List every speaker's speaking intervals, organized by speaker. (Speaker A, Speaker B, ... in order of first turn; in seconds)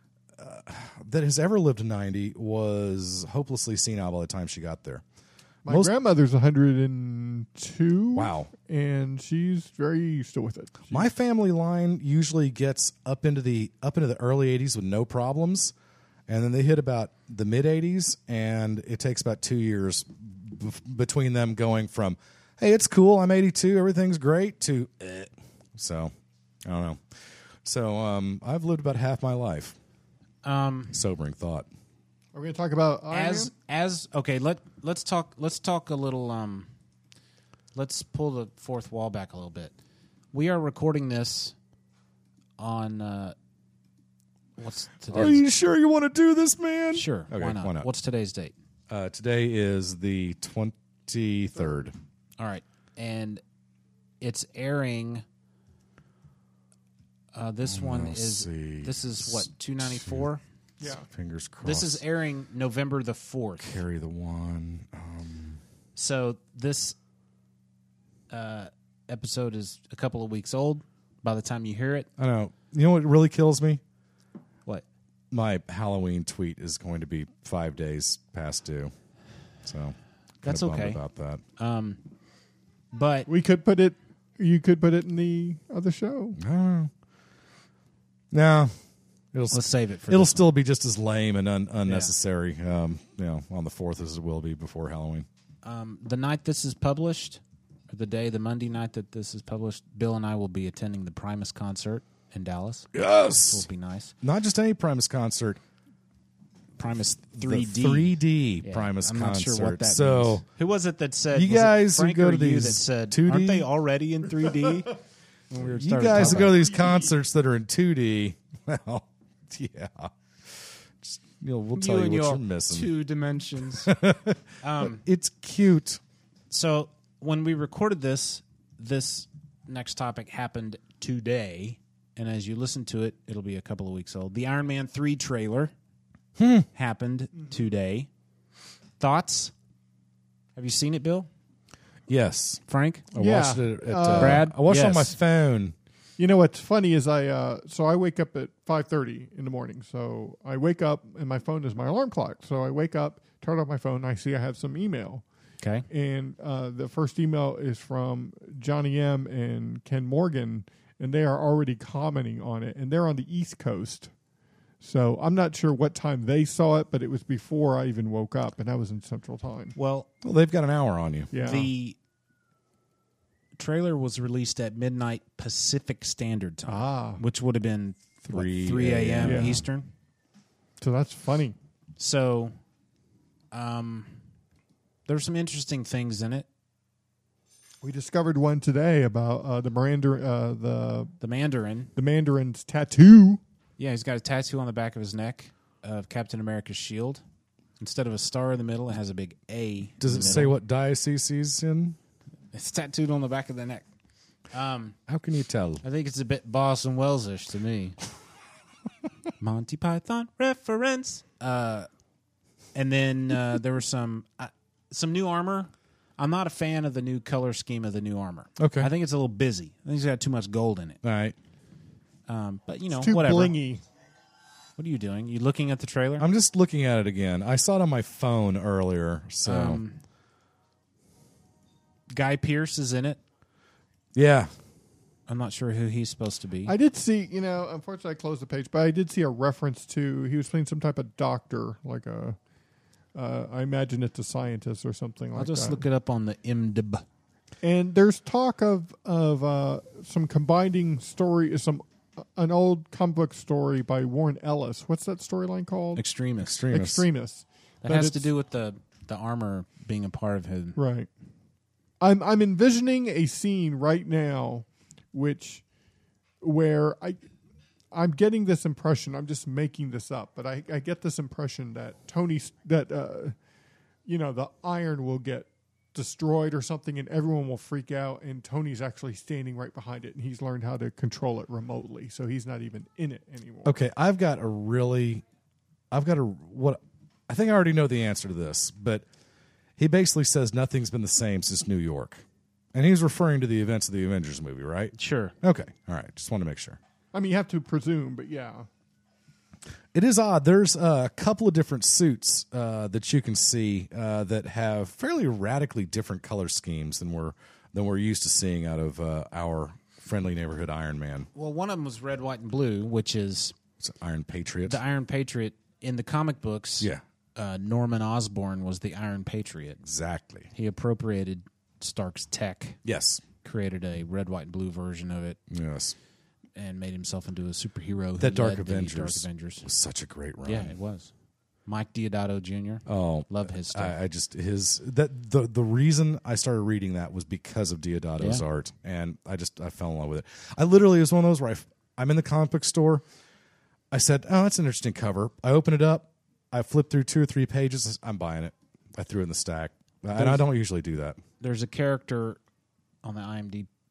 Speaker A: 0.4-5.0, 5.7-5.9, 8.1-8.5, 10.9-15.7, 16.3-26.1, 26.6-27.0, 27.6-29.8, 30.9-31.7, 45.1-47.9, 48.9-51.9, 57.6-60.3, 60.9-62.0, 63.6-65.6, 72.2-73.8, 75.3-78.9, 79.6-81.4, 86.4-86.9, 88.3-88.7, 89.3-95.3, 102.9-103.7, 104.2-105.6, 107.3-110.5, 111.3-113.7, 115.6-122.9, 123.8-126.0, 136.4-136.7, 142.1-145.7, 170.2-171.3, 178.3-179.6, 200.0-202.0, 205.1-205.8, 218.6-218.9, 221.0-221.3, 226.2-229.8, 234.1-234.5, 256.4-257.1, 283.6-285.2, 285.9-289.0, 289.8-296.8, 299.9-311.3, 313.8-314.8, 319.8-320.5, 322.8-323.2, 325.5-325.9, 328.2-330.7, 332.9-343.0, 343.9-351.2
Speaker B: 5.6-11.1, 32.3-33.5, 51.6-51.8, 83.3-86.4, 143.1-144.5, 146.2-155.2, 155.9-164.1, 164.8-169.7, 171.3-171.7, 176.7-177.2, 179.2-179.6, 180.8-181.6, 187.8-191.1, 191.9-193.4, 222.9-223.8, 236.7-242.4, 243.1-245.8, 247.6-256.0, 256.7-258.3, 260.8-261.1, 262.0-265.6, 266.4-267.2, 267.9-273.3, 274.1-283.7, 297.1-298.7
Speaker C: 30.4-31.0, 33.1-36.7, 37.7-39.7, 40.3-41.5, 42.6-43.3, 44.6-45.4, 46.9-48.5, 52.4-53.4, 54.2-55.2, 57.3-60.4, 61.6-63.8, 66.0-67.0, 68.3-72.1, 80.4-81.0, 81.6-82.0, 82.9-83.3, 89.5-90.5, 91.8-92.1, 95.6-102.9, 103.4-104.1, 106.8-115.0, 115.5-116.6, 121.7-123.9, 124.6-125.0, 126.5-135.7, 136.7-138.1, 139.0-139.5, 140.6-141.3, 142.7-143.1, 144.2-145.1, 169.8-170.1, 171.4-172.0, 173.6-179.9, 182.0-182.5, 183.5-184.2, 185.1-186.4, 191.2-191.9, 193.8-197.2, 197.8-200.6, 202.5-203.8, 204.5-205.0, 205.8-208.0, 209.4-211.9, 212.7-221.0, 222.3-223.5, 224.8-226.3, 229.4-230.0, 232.1-233.2, 235.3-236.7, 245.3-247.0, 255.9-256.6, 257.8-260.8, 294.9-295.3, 311.3-313.5, 314.6-319.8, 320.5-322.8, 323.4-325.4, 326.6-329.7, 330.4-331.1, 331.6-333.9, 338.2-338.4, 350.1-350.4, 351.4-352.4, 353.0-353.7